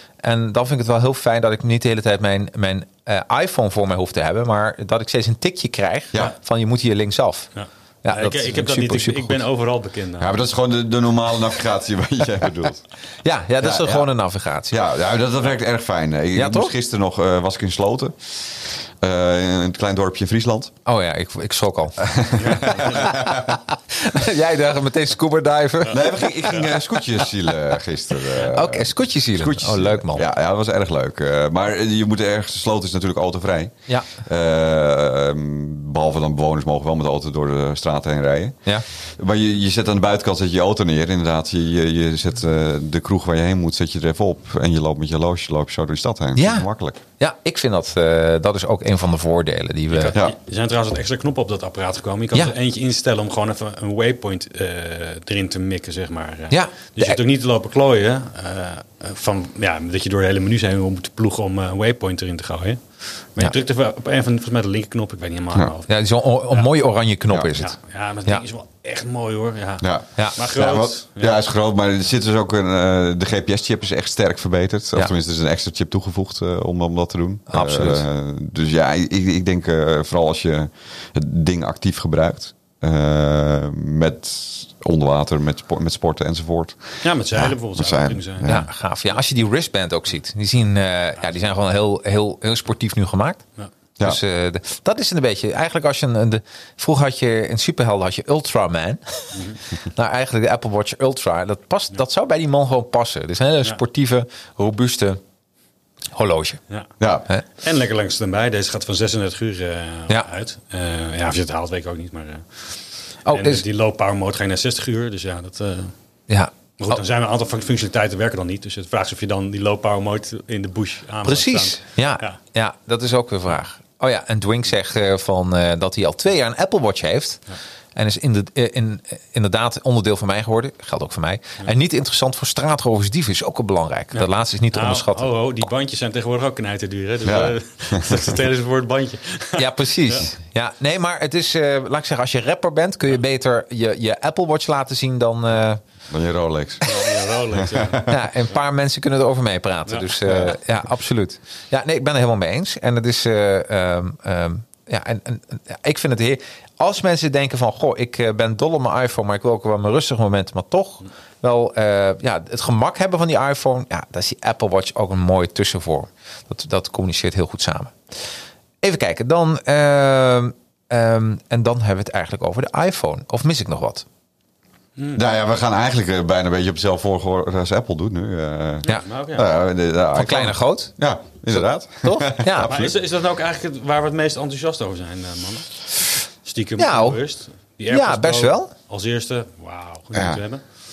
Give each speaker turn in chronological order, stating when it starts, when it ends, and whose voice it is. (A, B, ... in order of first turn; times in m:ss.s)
0:00.2-0:07.5 A
0:07.5-0:10.4 B
0:08.0-0:09.4 A
0:10.2-0:12.8 C
0:13.2-0:14.8 A
0:13.6-0:14.1 C
0:14.7-0:20.7 C
0:16.3-0:16.7 A
0:20.8-0:22.0 A
0:22.0-0:23.6 C
0:22.4-0:23.1 B
0:22.6-0:26.7 A
0:25.9-0:47.0 C
0:28.5-0:30.3 A
0:46.3-0:46.7 A
0:47.2-0:50.2 A
0:49.9-1:05.9 B
0:56.5-0:57.2 A
1:05.9-1:08.4 A
1:07.5-1:11.4 B
1:09.8-1:28.7 C
1:17.5-1:18.0 A
1:27.0-1:28.5 B
1:28.4-1:33.4 A
1:34.0-1:45.2 A
1:39.3-1:39.6 B
1:46.1-1:46.6 A
1:47.0-1:47.3 C
1:47.5-1:55.9 B
1:53.2-1:53.6 A
1:56.3-1:57.0 A
1:56.8-2:02.4 B
2:01.2-2:15.3 A
2:14.1-2:20.3 B
2:17.2-2:18.3 C
2:19.6-2:25.8 A
2:26.1-2:27.0 C
2:26.8-2:28.0 B
2:27.6-2:28.2 C
2:28.1-2:48.0 A
2:29.9-2:30.5 B
2:48.8-2:54.0 A
2:55.0-2:55.2 B
2:55.1-3:02.9 C
2:58.8-2:59.5 B
3:00.1-3:01.0 A
3:01.5-3:02.7 A
3:02.7-3:05.8 B
3:06.4-3:10.6 B
3:06.8-3:07.2 A
3:07.9-3:08.7 A
3:10.1-3:10.4 C